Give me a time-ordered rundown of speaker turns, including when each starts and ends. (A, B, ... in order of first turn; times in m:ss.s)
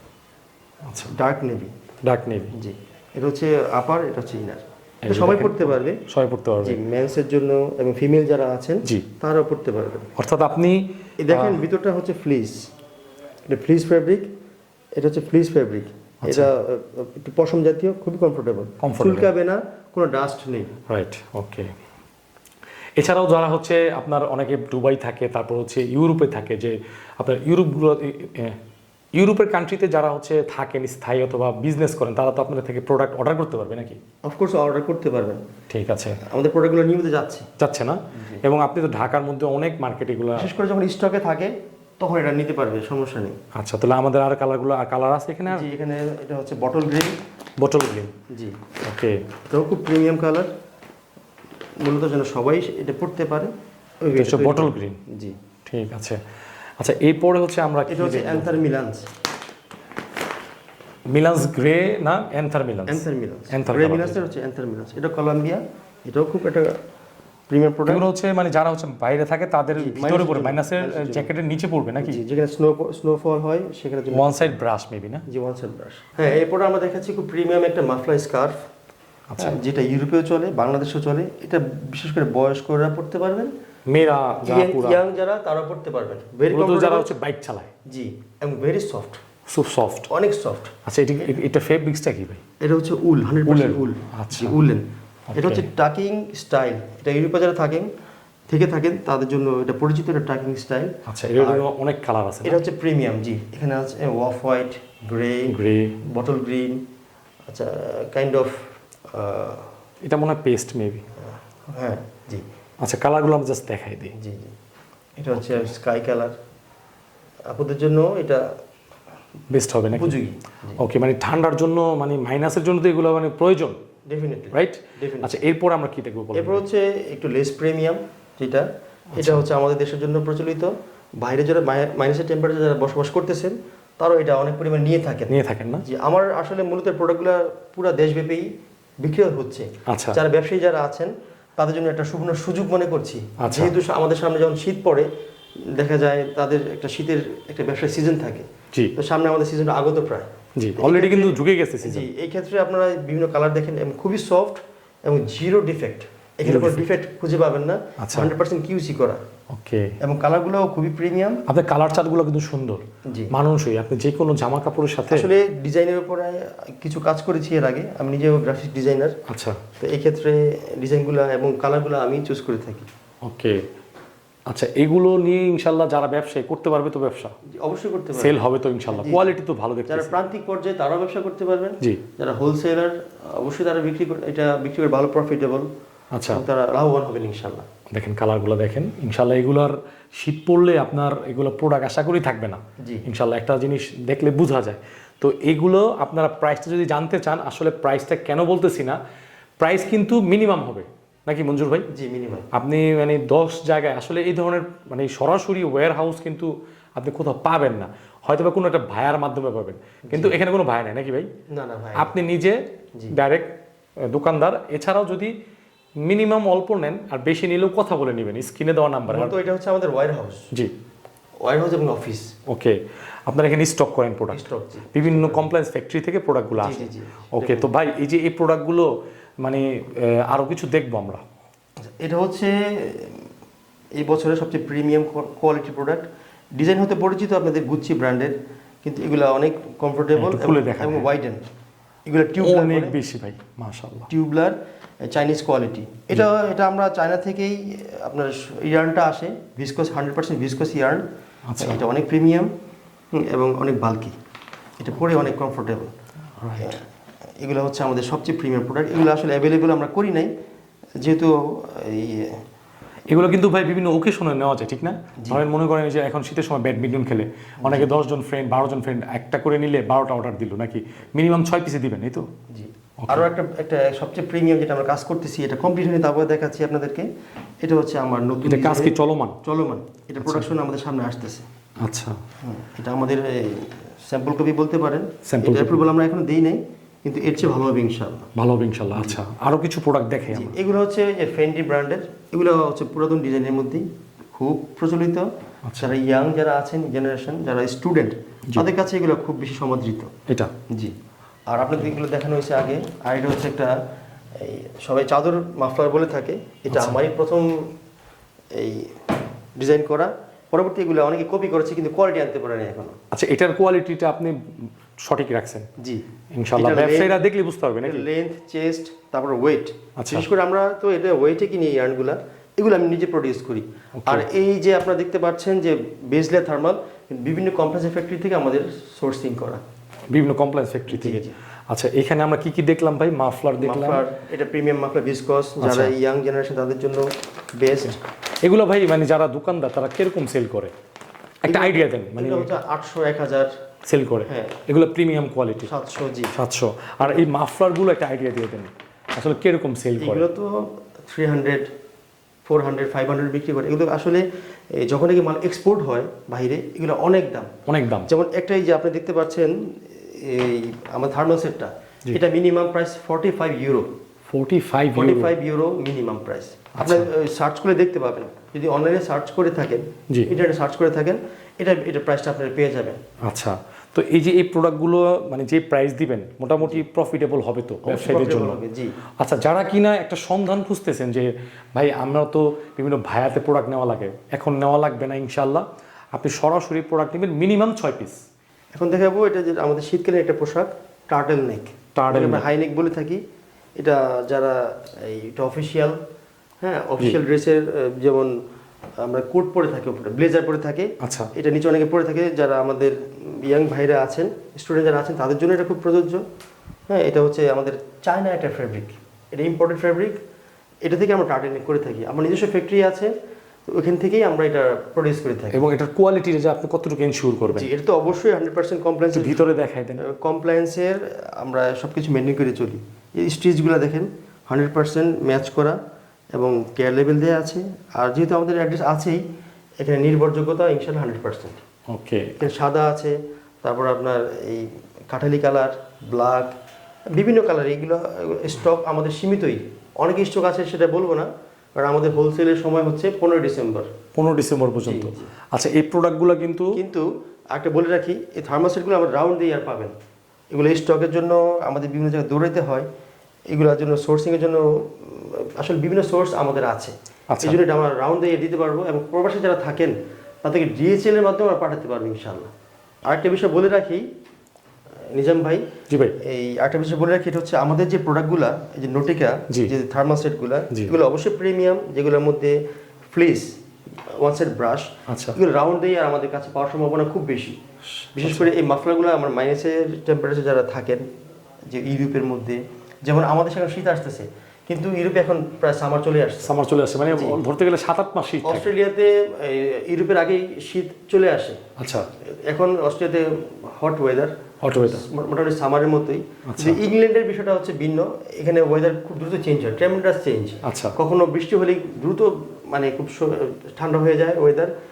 0:00.9-0:01.1 A
0:01.1-0:01.7 B
0:02.0-0:02.5 A
0:02.5-0:06.0 B
0:05.0-0:06.8 A
0:06.6-0:10.1 B
0:10.2-0:10.8 A
0:11.2-0:12.7 B
0:11.3-0:11.6 A
0:13.5-0:14.3 B
0:15.0-0:20.7 B
0:16.2-0:16.5 A
0:18.8-0:19.3 A
0:20.9-0:21.7 A
0:23.0-0:28.6 A
0:29.1-0:34.0 A
0:34.2-0:35.4 B
0:35.7-0:36.2 A
0:36.2-0:37.4 B
0:37.6-0:40.5 A
0:38.1-0:38.4 B
0:40.4-0:43.3 B
0:43.5-0:45.7 A
0:45.5-0:47.2 B
0:47.6-0:48.1 A
0:48.3-0:48.6 B
0:48.8-0:49.2 A
0:49.5-0:50.5 B
0:51.8-0:55.4 B
0:54.1-0:55.0 A
0:55.6-0:56.2 A
0:56.8-0:58.6 A
0:57.9-0:59.1 B
1:01.1-1:04.2 A
1:02.9-1:06.8 B
1:07.5-1:08.0 B
1:07.9-1:12.2 A
1:09.8-1:11.3 B
1:12.0-1:14.6 B
1:14.1-1:15.2 A
1:15.3-1:18.5 B
1:19.4-1:23.5 B
1:23.9-1:25.0 A
1:24.4-1:27.1 B
1:26.5-1:27.7 A
1:27.9-1:29.2 B
1:29.5-1:30.1 A
1:30.1-1:30.7 B
1:30.8-1:32.4 A
1:32.6-1:37.9 B
1:33.4-1:34.6 A
1:35.3-1:35.7 A
1:38.5-1:41.6 B
1:41.0-1:42.6 A
1:42.4-1:46.8 B
1:45.5-1:46.0 A
1:47.5-1:49.7 B
1:50.0-1:51.0 A
1:51.7-1:52.4 B
1:52.8-1:54.1 A
1:54.1-1:54.5 B
1:55.2-1:56.3 B
1:57.5-1:58.5 B
1:59.5-2:00.2 A
1:59.9-2:00.8 B
2:00.8-2:03.8 A
2:04.1-2:05.4 B
2:04.5-2:06.6 A
2:06.3-2:15.3 B
2:09.2-2:09.4 A
2:15.3-2:15.8 A
2:15.8-2:18.5 B
2:19.0-2:25.1 B
2:19.9-2:20.2 A
2:23.4-2:23.7 A
2:25.7-2:28.4 B
2:29.0-2:39.2 B
2:30.6-2:32.1 A
2:36.4-2:36.9 A
2:38.0-2:38.3 A
2:39.5-2:39.9 A
2:40.0-2:41.4 B
2:41.5-2:45.3 A
2:43.0-2:43.3 B
2:45.1-2:49.2 B
2:49.3-2:49.6 A
2:49.8-2:52.9 B
2:53.2-2:53.6 A
2:54.5-2:57.3 A
2:57.5-2:59.4 B
2:58.1-3:00.2 A
2:59.9-3:05.7 B
3:06.1-3:06.4 A
3:06.3-3:07.6 B
3:07.9-3:19.0 A
3:12.8-3:13.0 B
3:19.6-3:21.8 A
3:21.9-3:22.5 B
3:22.5-3:31.3 A
3:30.1-3:30.4 B
3:31.5-3:32.2 B
3:32.0-3:32.6 A
3:33.1-3:35.3 A
3:36.0-3:39.3 A
3:39.1-3:40.5 B
3:41.4-3:42.3 B
3:42.5-3:42.8 A
3:43.3-3:48.9 A
3:44.3-3:45.5 B
3:46.6-3:47.7 B
3:49.4-3:51.2 A
3:52.0-3:53.3 B
3:54.0-4:01.5 B
4:00.1-4:01.1 A
4:02.0-4:03.0 B
4:02.4-4:04.1 A
4:04.1-4:11.0 B
4:11.4-4:11.8 A
4:11.6-4:12.5 B
4:13.1-4:14.2 B
4:14.8-4:15.9 B
4:16.4-4:16.8 A
4:16.6-4:16.8 B
4:17.4-4:20.3 B
4:21.0-4:22.4 B
4:23.1-4:32.3 A
4:27.6-4:27.9 B
4:32.5-4:37.1 B
4:37.6-4:41.4 B
4:38.4-4:39.4 A
4:40.2-4:40.5 A
4:41.8-4:42.2 A
4:42.4-4:48.3 B
4:45.2-4:45.8 A
4:48.3-4:50.6 A
4:48.9-4:49.2 B
4:50.3-5:00.1 B
4:55.6-4:55.9 A
5:01.5-5:03.7 B
5:04.3-5:07.7 B
5:06.7-5:07.0 A
5:08.5-5:13.0 B
5:13.1-5:15.7 A
5:15.8-5:16.0 B
5:16.3-5:18.0 A
5:16.6-5:17.2 B
5:17.8-5:29.6 B
5:20.0-5:20.3 A
5:24.0-5:24.2 A
5:30.1-5:34.0 A
5:30.9-5:31.4 B
5:33.6-5:38.0 B
5:35.6-5:35.9 A
5:38.4-5:40.7 A
5:41.4-5:42.5 A
5:41.5-5:43.5 B
5:43.8-5:45.7 A
5:44.2-5:44.6 B
5:45.6-5:46.4 B
5:46.3-5:50.2 A
5:47.0-5:47.3 B
5:50.0-5:51.7 B
5:52.4-5:57.5 B
5:57.7-5:58.1 A
5:58.0-6:03.9 B
6:04.3-6:05.3 A
6:04.9-6:13.0 B
6:06.8-6:07.1 A
6:13.2-6:18.6 A
6:17.8-6:19.0 B
6:19.2-6:28.2 A
6:28.7-6:33.2 B
6:31.9-6:32.4 A
6:33.8-6:36.0 B
6:36.6-6:38.3 B
6:39.0-6:46.2 B
6:41.0-6:41.3 A
6:46.9-6:50.2 B
6:50.8-6:53.1 B
6:53.7-6:55.6 B
6:55.5-6:57.7 A
6:57.5-6:59.4 B
6:59.1-7:00.0 A
7:00.0-7:05.8 B
7:06.3-7:09.2 B
7:09.8-7:11.6 B
7:11.9-7:12.4 A
7:12.4-7:16.5 B
7:17.1-7:23.9 B
7:24.2-7:26.8 A
7:24.8-7:25.3 B
7:26.7-7:29.9 B
7:30.5-7:32.8 B
7:33.5-7:42.5 B
7:37.3-7:37.6 A
7:43.0-7:44.0 B
7:45.1-7:45.6 B
7:45.9-7:46.2 A
7:46.2-7:52.6 B
7:53.1-7:53.5 B
7:54.1-7:57.6 B
7:55.1-7:55.4 A
7:58.0-7:58.5 A
7:58.2-8:01.0 B
8:01.7-8:06.5 B
8:06.4-8:08.7 A
8:07.1-8:07.4 B
8:08.4-8:11.6 B
8:11.8-8:12.1 A
8:12.2-8:24.7 B
8:14.6-8:15.0 A
8:16.4-8:16.8 A
8:20.6-8:21.0 A